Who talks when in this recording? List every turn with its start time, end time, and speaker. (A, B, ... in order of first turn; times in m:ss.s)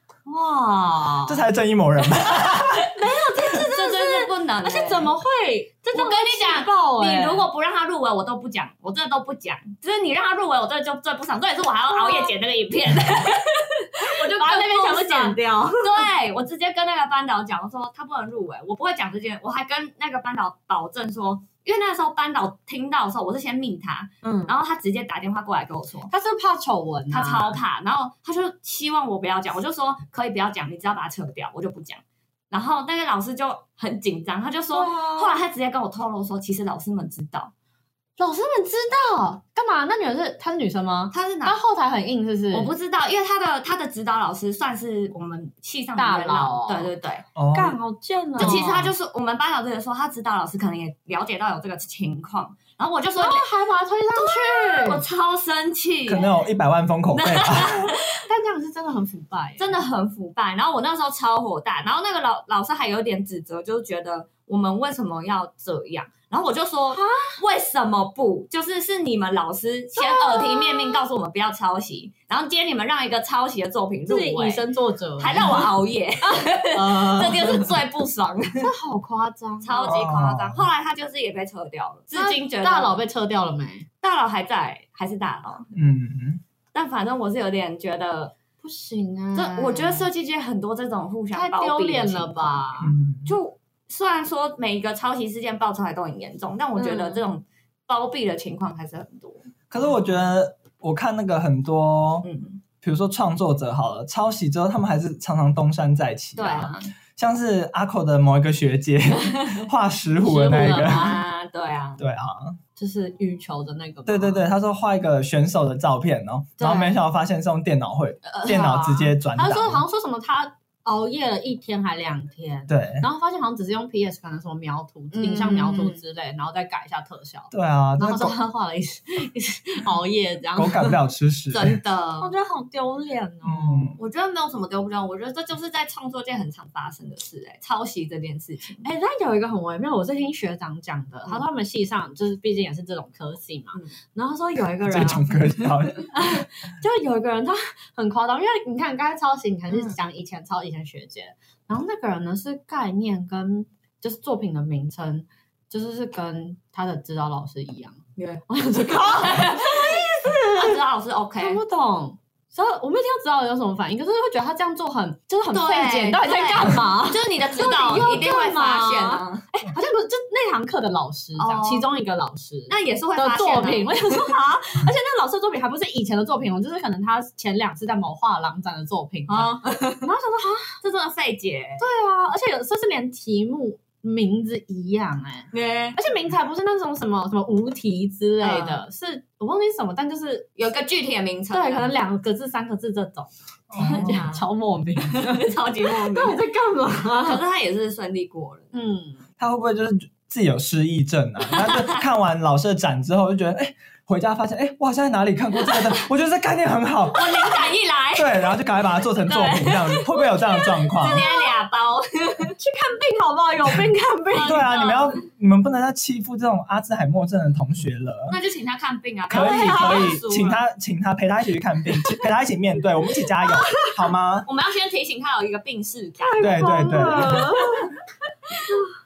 0:00.3-0:01.4 A
0:01.3-0:02.9 B
0:02.8-0:07.5 A
0:03.5-0:05.1 C
0:05.9-0:26.1 C
0:11.9-0:12.3 A
0:14.0-0:16.1 A
0:24.2-0:24.5 A
0:26.1-0:27.6 A
0:27.1-0:37.5 C
0:34.7-0:35.4 A
0:38.2-0:42.7 A
0:41.1-0:41.6 C
0:42.5-0:47.3 C
0:46.0-0:46.9 A
0:47.4-0:47.8 B
0:47.5-0:48.9 A
0:48.4-0:53.5 C
0:53.2-0:55.0 A
0:54.2-0:56.3 C
0:56.1-0:57.9 B
0:57.1-0:58.2 C
0:58.0-0:59.8 A
0:59.6-1:14.6 C
1:06.9-1:07.4 A
1:10.0-1:11.1 A
1:14.1-1:15.7 A
1:15.2-1:18.7 C
1:16.2-1:17.7 A
1:18.6-1:20.0 A
1:19.6-1:23.0 C
1:19.8-1:20.7 B
1:22.1-1:23.9 A
1:24.0-1:25.7 C
1:25.7-1:26.4 B
1:26.7-1:28.3 C
1:28.6-1:30.1 A
1:29.4-1:32.7 C
1:31.3-1:33.0 A
1:32.8-1:33.4 B
1:33.2-1:39.5 C
1:36.8-1:37.2 A
1:39.7-1:42.3 B
1:42.2-1:42.6 C
1:42.8-1:51.2 B
1:46.4-1:46.9 C
1:49.3-1:49.7 C
1:50.2-1:51.2 A
1:50.3-1:52.0 C
1:52.0-1:52.6 B
1:52.8-1:54.4 A
1:54.1-1:59.8 B
1:56.6-1:57.0 A
1:58.2-2:11.0 A
2:02.7-2:03.1 B
2:05.1-2:06.0 C
2:07.5-2:08.4 B
2:10.6-2:11.8 B
2:11.5-2:12.3 C
2:12.2-2:14.0 A
2:13.4-2:14.0 B
2:14.0-2:18.9 C
2:18.8-2:40.8 A
2:24.9-2:26.1 B
2:29.7-2:30.0 C
2:38.2-2:41.6 C
2:41.4-3:00.8 A
2:45.5-2:49.6 C
2:51.4-2:51.9 C
2:52.7-2:54.4 C
2:59.3-3:00.1 C
3:00.8-3:01.8 C
3:01.8-3:10.5 A
3:05.5-3:06.0 C
3:08.4-3:08.8 C
3:10.6-3:11.9 C
3:11.5-3:17.4 A
3:13.7-3:14.2 B
3:13.8-3:14.4 C
3:15.1-3:16.4 C
3:17.2-3:18.7 C
3:18.7-3:19.2 A
3:19.4-3:27.5 B
3:21.5-3:22.0 C
3:27.1-3:28.5 C
3:28.2-3:31.3 B
3:29.3-3:32.6 C
3:32.6-3:34.7 A
3:34.3-3:35.2 C
3:34.4-3:38.4 B
3:38.3-3:40.6 C
3:39.3-3:44.5 B
3:39.3-3:40.6 A
3:43.4-3:43.9 A
3:44.5-3:47.9 C
3:46.2-3:47.9 A
3:46.4-3:47.7 B
3:48.5-3:48.8 C